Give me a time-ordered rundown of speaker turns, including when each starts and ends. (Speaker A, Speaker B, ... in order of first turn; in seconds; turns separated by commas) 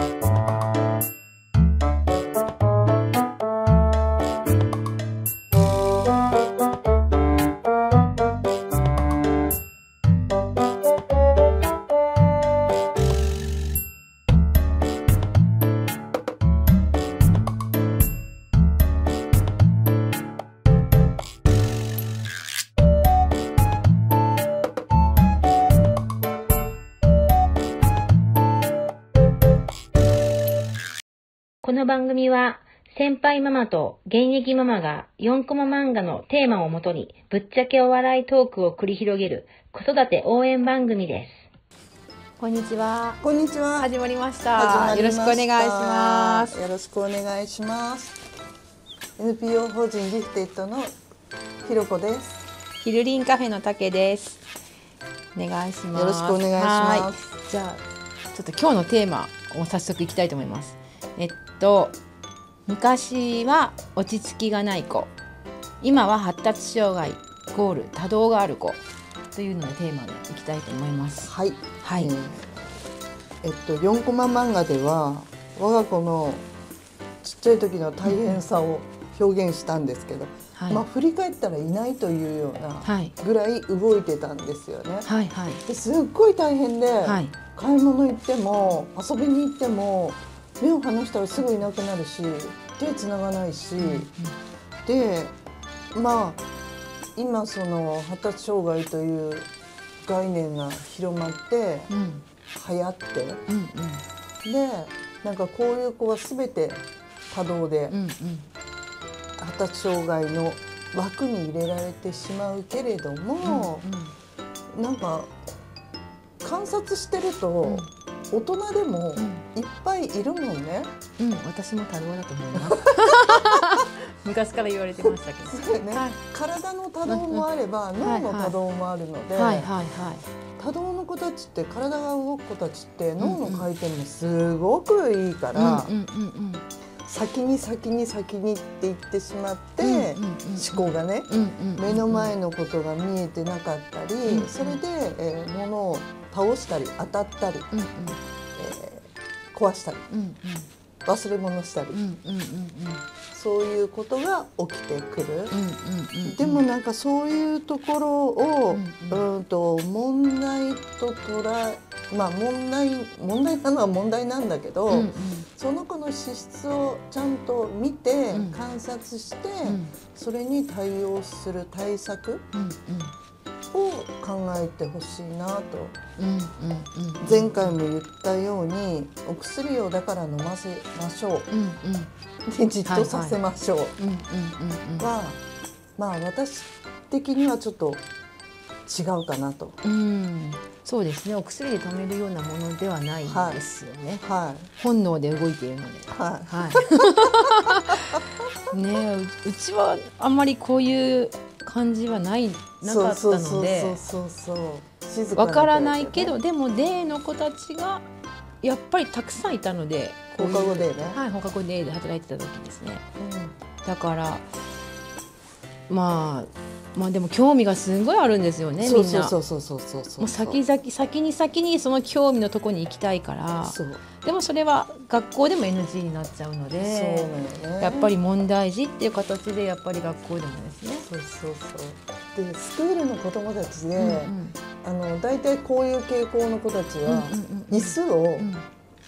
Speaker A: 31.6-41.3, Speaker B: 32.0-32.7, Speaker B: 34.0-36.5, Speaker B: 38.9-39.9, Speaker B: 42.4-43.2, Speaker C: 43.2-43.9, Speaker B: 43.8-46.6, Speaker C: 44.5-48.2, Speaker C: 49.2-50.9, Speaker C: 51.6-52.4, Speaker B: 52.8-54.4, Speaker B: 55.3-62.0, Speaker C: 55.9-57.2, Speaker B: 62.6-65.1, Speaker B: 65.8-68.8, Speaker B: 69.3-71.3, Speaker C: 71.2-72.6, Speaker B: 71.8-72.1, Speaker C: 73.4-76.5, Speaker C: 77.2-85.1, Speaker B: 78.0-78.4, Speaker B: 80.5-80.8, Speaker B: 82.8-83.1, Speaker B: 85.0-85.6, Speaker C: 85.7-94.1, Speaker B: 87.0-87.3, Speaker B: 93.8-94.3, Speaker C: 94.8-95.3, Speaker C: 95.9-96.4, Speaker C: 97.2-99.5, Speaker C: 100.0-101.9, Speaker B: 101.9-102.2, Speaker C: 102.5-103.4, Speaker B: 103.5-104.0, Speaker C: 104.4-108.0, Speaker B: 107.9-108.5, Speaker C: 109.4-113.9, Speaker B: 113.4-114.1, Speaker C: 114.7-115.3, Speaker C: 116.4-120.9, Speaker B: 117.6-117.9, Speaker B: 119.2-119.4, Speaker B: 121.2-126.2, Speaker C: 122.5-123.6, Speaker C: 125.5-129.7, Speaker B: 127.0-127.5, Speaker B: 128.0-128.6, Speaker B: 129.3-130.2, Speaker C: 130.6-135.9, Speaker B: 133.2-133.7, Speaker B: 135.5-136.6, Speaker C: 137.1-147.7, Speaker B: 139.8-142.3, Speaker B: 144.2-144.8, Speaker B: 147.7-148.2, Speaker C: 148.6-150.0, Speaker B: 150.1-150.7, Speaker C: 151.1-152.0, Speaker B: 151.9-153.0, Speaker C: 153.3-155.6, Speaker B: 155.5-156.7, Speaker C: 156.2-172.4, Speaker B: 158.7-159.2, Speaker B: 164.9-165.5, Speaker B: 168.3-168.6, Speaker B: 169.6-169.9, Speaker B: 172.5-173.1, Speaker C: 173.7-175.9, Speaker B: 176.2-177.8, Speaker C: 177.2-181.5, Speaker B: 181.5-182.1, Speaker C: 182.5-183.9, Speaker B: 182.8-183.4, Speaker B: 184.0-185.1, Speaker C: 185.0-185.4, Speaker C: 186.0-188.0, Speaker C: 188.8-189.8, Speaker B: 189.8-194.2, Speaker C: 193.2-193.6, Speaker C: 194.2-194.7, Speaker B: 194.8-204.0, Speaker C: 196.1-197.6, Speaker C: 202.8-206.4, Speaker B: 205.3-208.1, Speaker B: 208.6-213.0, Speaker C: 210.4-211.2, Speaker C: 213.2-213.5, Speaker B: 213.8-214.5, Speaker B: 215.9-219.3, Speaker C: 218.8-220.6, Speaker B: 220.2-231.1, Speaker C: 223.6-224.0, Speaker C: 226.8-228.1, Speaker C: 231.0-238.5, Speaker B: 233.9-234.5, Speaker B: 237.1-238.6